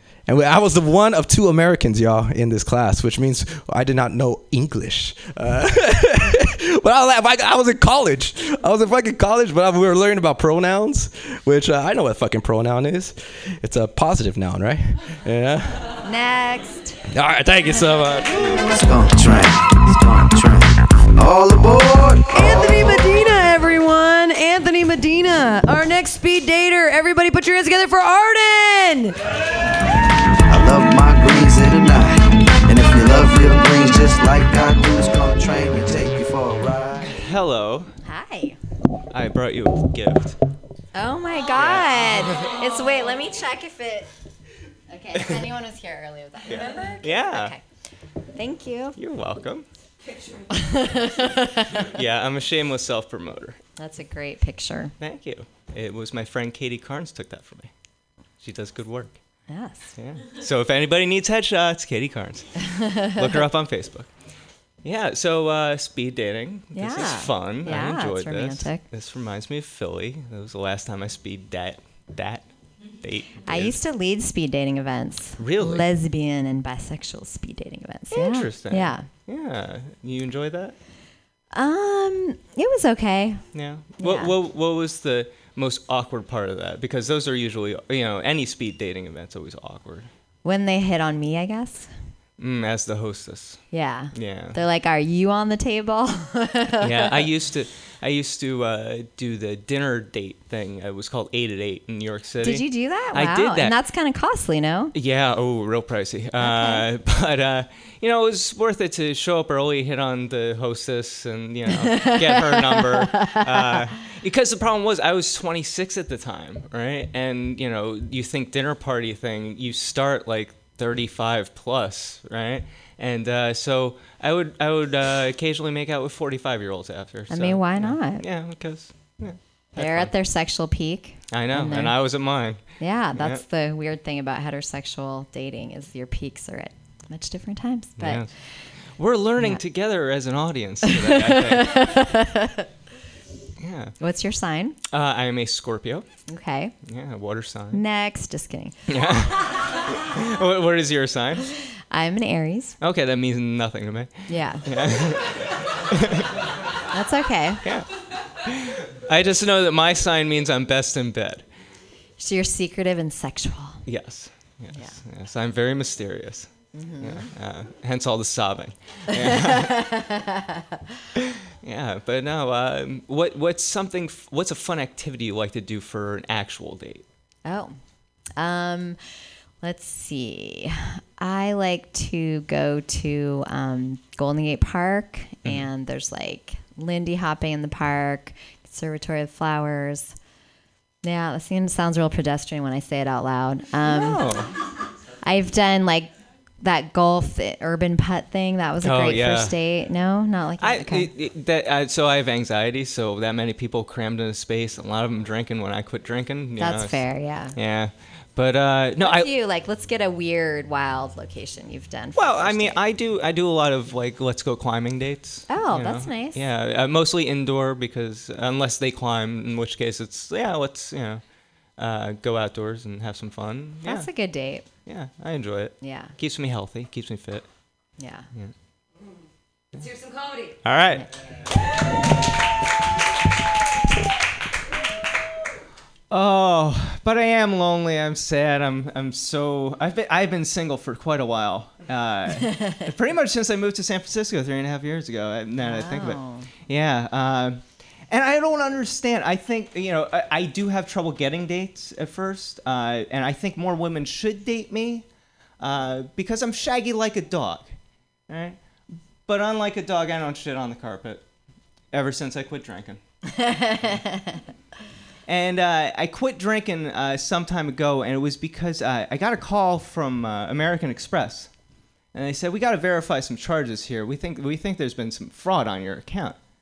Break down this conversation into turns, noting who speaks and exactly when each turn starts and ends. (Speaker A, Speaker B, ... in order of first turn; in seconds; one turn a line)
Speaker A: 0.3-15.9
Speaker B: 16.0-17.0
Speaker A: 17.1-18.5
Speaker C: 18.4-22.8
Speaker D: 22.3-29.2
Speaker C: 30.5-37.1
Speaker E: 37.1-37.9
Speaker B: 38.0-38.6
Speaker E: 39.1-40.4
Speaker B: 40.9-44.1
Speaker E: 41.5-42.5
Speaker B: 44.9-47.6
Speaker E: 45.1-45.4
Speaker E: 46.5-47.5
Speaker B: 48.4-49.0
Speaker E: 49.0-49.7
Speaker B: 50.7-51.8
Speaker E: 51.9-53.6
Speaker B: 53.8-54.9
Speaker E: 55.0-57.7
Speaker E: 58.4-59.2
Speaker B: 59.5-59.9
Speaker E: 60.0-64.1
Speaker B: 62.9-63.1
Speaker E: 64.8-73.8
Speaker B: 66.7-68.8
Speaker B: 73.5-79.1
Speaker E: 75.4-75.9
Speaker E: 78.1-80.8
Speaker B: 81.5-83.4
Speaker E: 83.5-90.1
Speaker B: 84.0-84.3
Speaker B: 90.4-91.9
Speaker E: 92.4-94.6
Speaker B: 93.7-97.2
Speaker E: 96.8-103.8
Speaker B: 102.4-104.9
Speaker E: 104.9-130.1
Speaker B: 106.4-106.9
Speaker B: 111.8-113.8
Speaker B: 127.3-128.4
Speaker B: 129.8-138.3
Speaker E: 131.3-133.4
Speaker E: 138.0-138.3
Speaker E: 138.9-142.1
Speaker B: 140.8-142.7
Speaker E: 143.6-143.9
Speaker B: 144.0-144.8
Speaker E: 144.9-146.1
Speaker B: 146.3-146.8
Speaker E: 146.8-147.8
Speaker B: 147.7-148.8
Speaker E: 148.9-151.4
Speaker B: 151.9-152.8
Speaker E: 152.8-155.4
Speaker B: 154.3-154.7
Speaker E: 155.9-156.2
Speaker B: 156.9-157.6
Speaker E: 158.5-161.5
Speaker B: 162.2-163.8
Speaker E: 163.9-169.8
Speaker B: 166.7-167.3
Speaker B: 169.1-170.4
Speaker E: 171.6-177.0
Speaker B: 177.4-177.8
Speaker B: 178.4-179.0
Speaker B: 179.6-190.2
Speaker B: 191.0-194.4
Speaker E: 193.8-194.5
Speaker B: 195.2-201.1
Speaker E: 198.8-199.6
Speaker E: 200.6-209.3
Speaker B: 206.6-207.6
Speaker B: 209.0-212.8
Speaker E: 212.1-221.2
Speaker B: 215.5-216.5
Speaker E: 221.8-224.1
Speaker B: 223.8-224.7
Speaker E: 224.8-227.5
Speaker B: 225.8-226.1
Speaker B: 228.0-228.3
Speaker E: 230.6-231.1
Speaker E: 236.1-255.1
Speaker B: 245.6-246.5
Speaker E: 255.6-257.8
Speaker E: 258.3-258.6
Speaker E: 259.3-261.2
Speaker E: 261.9-263.0
Speaker B: 263.5-263.9
Speaker E: 265.3-271.5
Speaker E: 272.1-276.4